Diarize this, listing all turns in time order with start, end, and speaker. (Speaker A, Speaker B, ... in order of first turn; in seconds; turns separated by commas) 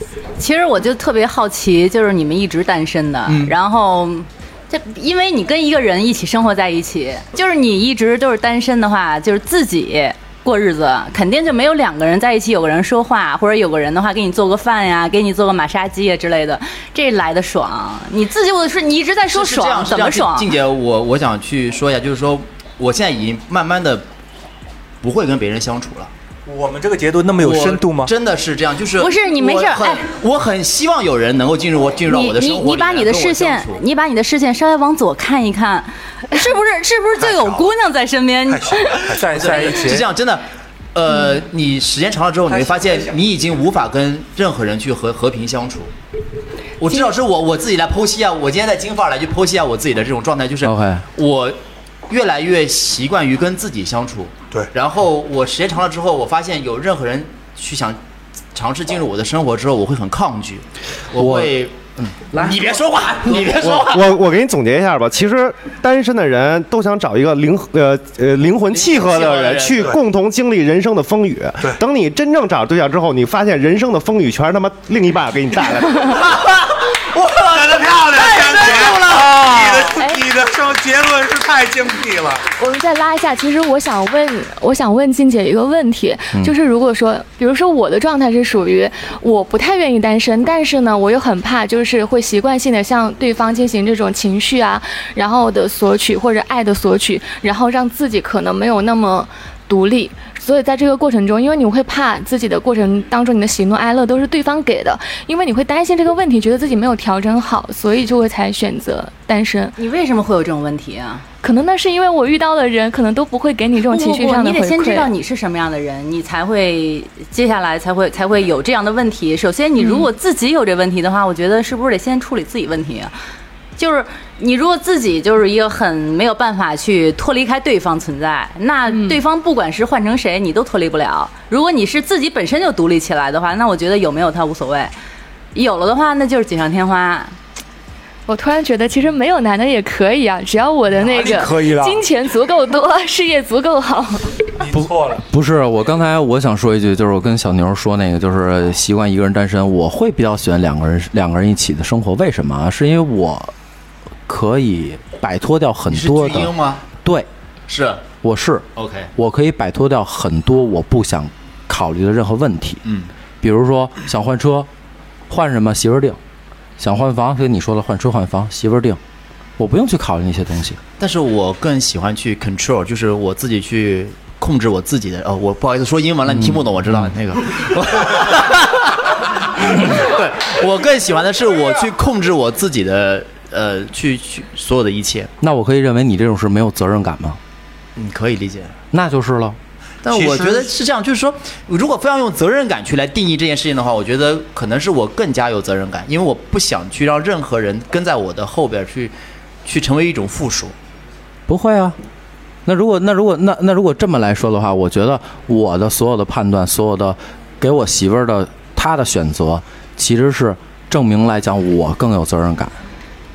Speaker A: 0.4-20.5, Speaker B: 3.3-3.5, Speaker C: 19.3-24.1, Speaker C: 25.0-26.1, Speaker D: 26.4-28.1, Speaker C: 27.4-33.8, Speaker A: 29.0-30.1, Speaker A: 32.0-39.0, Speaker B: 37.2-37.7, Speaker B: 38.5-39.4, Speaker C: 39.0-45.9, Speaker D: 39.0-40.1, Speaker D: 42.5-43.1, Speaker C: 46.8-51.6, Speaker E: 50.6-51.0, Speaker C: 52.1-58.0, Speaker C: 58.5-61.7, Speaker E: 61.1-63.5, Speaker C: 62.3-64.1, Speaker F: 63.6-76.2, Speaker C: 68.7-69.9, Speaker B: 77.1-82.4, Speaker C: 78.0-80.0, Speaker G: 80.0-80.2, Speaker G: 82.6-109.8, Speaker A: 109.8-111.2, Speaker G: 111.4-115.1, Speaker A: 113.9-123.1, Speaker G: 119.8-120.1, Speaker A: 123.8-134.9, Speaker G: 128.9-129.2, Speaker A: 135.5-137.3, Speaker G: 138.3-144.4, Speaker D: 141.0-142.0, Speaker D: 144.6-145.2, Speaker E: 144.7-153.5, Speaker E: 154.3-157.3, Speaker C: 155.9-156.8, Speaker C: 157.7-158.0, Speaker E: 158.2-158.6, Speaker C: 158.8-159.1, Speaker E: 159.2-162.8, Speaker C: 162.8-163.1, Speaker E: 163.4-164.7, Speaker E: 165.3-166.2, Speaker E: 166.8-169.0, Speaker E: 169.6-170.8, Speaker C: 171.0-185.3, Speaker E: 185.4-187.4, Speaker C: 187.9-188.7, Speaker E: 188.9-189.6, Speaker C: 190.0-199.1, Speaker B: 190.1-190.7, Speaker C: 199.6-200.7, Speaker E: 201.5-202.0, Speaker E: 202.6-212.7